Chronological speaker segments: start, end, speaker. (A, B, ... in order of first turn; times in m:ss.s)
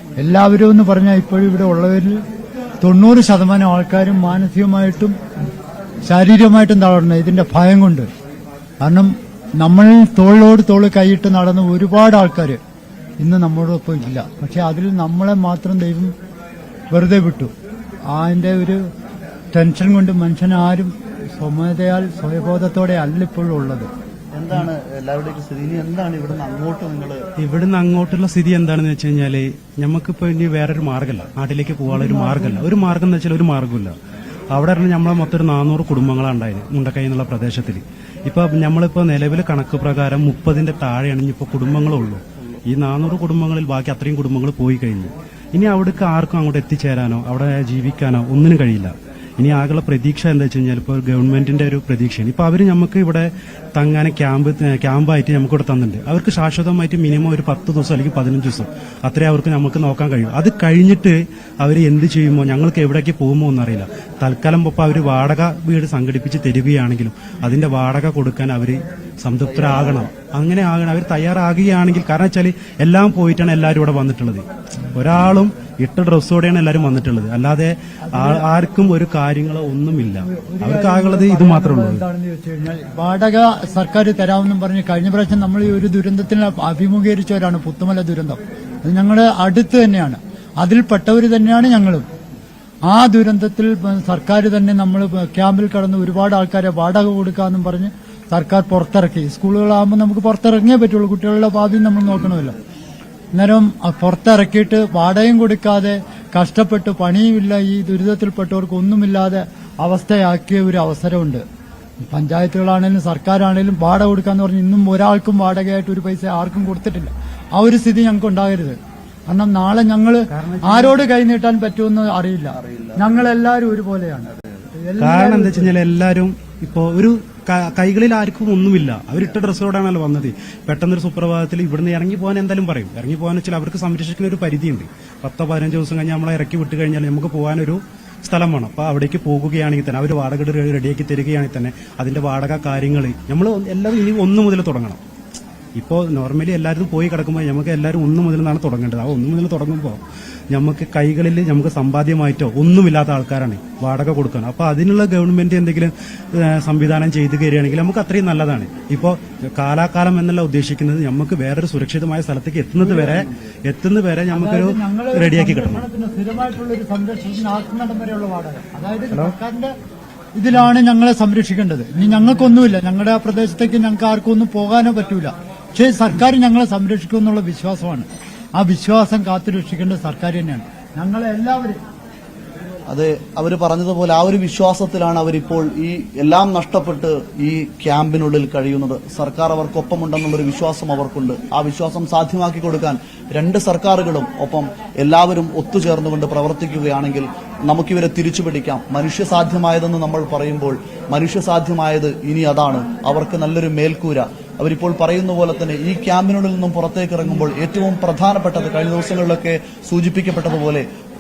0:00.2-0:02.2 A
0:02.8-0:05.2 A
0:06.0-0:08.1 A
0:08.8-0:12.6 A
0:13.2-0:16.1 A
0:16.9-0:17.5 A
0:18.1-0:18.8 A
0:19.5-0:23.9 A
0:24.3-0:27.2 B
0:27.4-0:33.9 C
0:31.9-0:32.7 A
0:34.5-1:14.4 C
1:09.4-1:10.1 B
1:14.9-1:22.0 C
1:18.0-1:18.6 A
1:20.2-1:32.0 A
1:32.9-1:42.5 A
1:43.3-1:51.4 A
1:52.0-1:58.8 A
1:59.3-2:05.8 A
2:00.3-2:01.0 C
2:02.5-2:03.2 B
2:05.0-2:25.0 C
2:25.8-2:30.0 C
2:30.5-2:45.8 C
2:44.3-2:49.7 A
2:50.4-3:01.8 A
3:02.9-3:30.8 B